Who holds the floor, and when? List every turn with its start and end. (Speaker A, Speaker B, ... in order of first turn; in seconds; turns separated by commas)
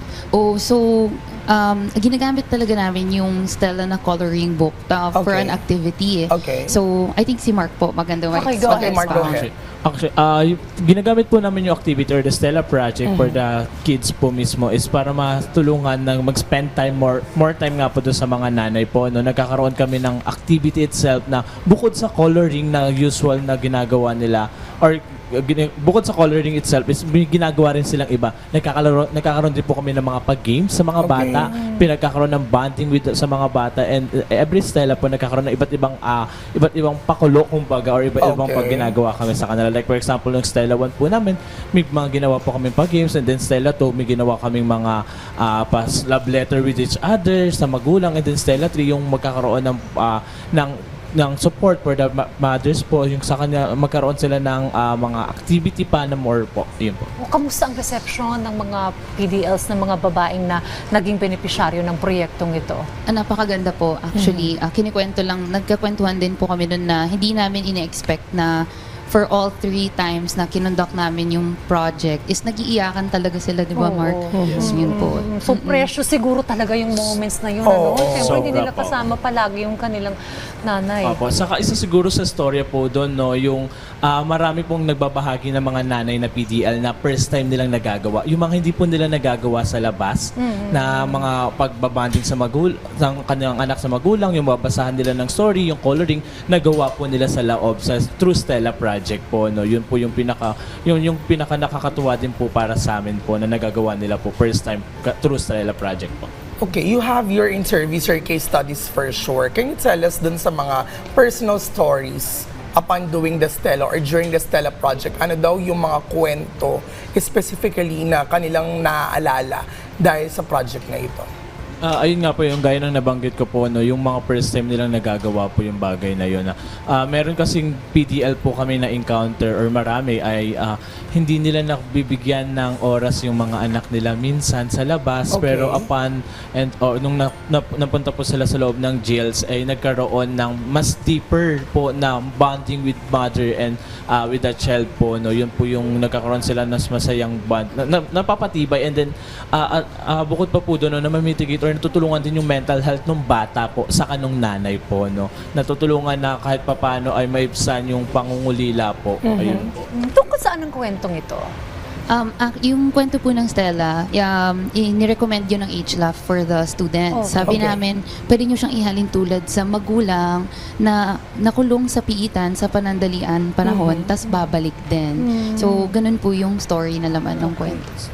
Speaker A: 0.3-9.5, Speaker B: 5.1-5.6, Speaker B: 6.3-6.8, Speaker B: 8.3-9.5, Speaker C: 9.0-57.1, Speaker B: 13.1-13.4, Speaker B: 31.0-31.5, Speaker D: 31.4-31.9, Speaker B: 38.2-38.9, Speaker D: 57.2-62.8, Speaker A: 63.1-68.5, Speaker A: 69.1-75.9, Speaker D: 73.8-81.2, Speaker B: 74.3-74.9, Speaker B: 77.6-78.4, Speaker C: 78.2-79.1, Speaker C: 81.0-106.3, Speaker D: 90.4-91.2, Speaker B: 106.6-121.3, Speaker C: 121.8-159.9, Speaker B: 135.3-135.9, Speaker B: 159.3-159.7, Speaker D: 159.9-161.4, Speaker A: 162.1-177.8, Speaker D: 167.1-167.6, Speaker B: 167.5-167.8, Speaker D: 173.7-174.4, Speaker D: 175.2-175.9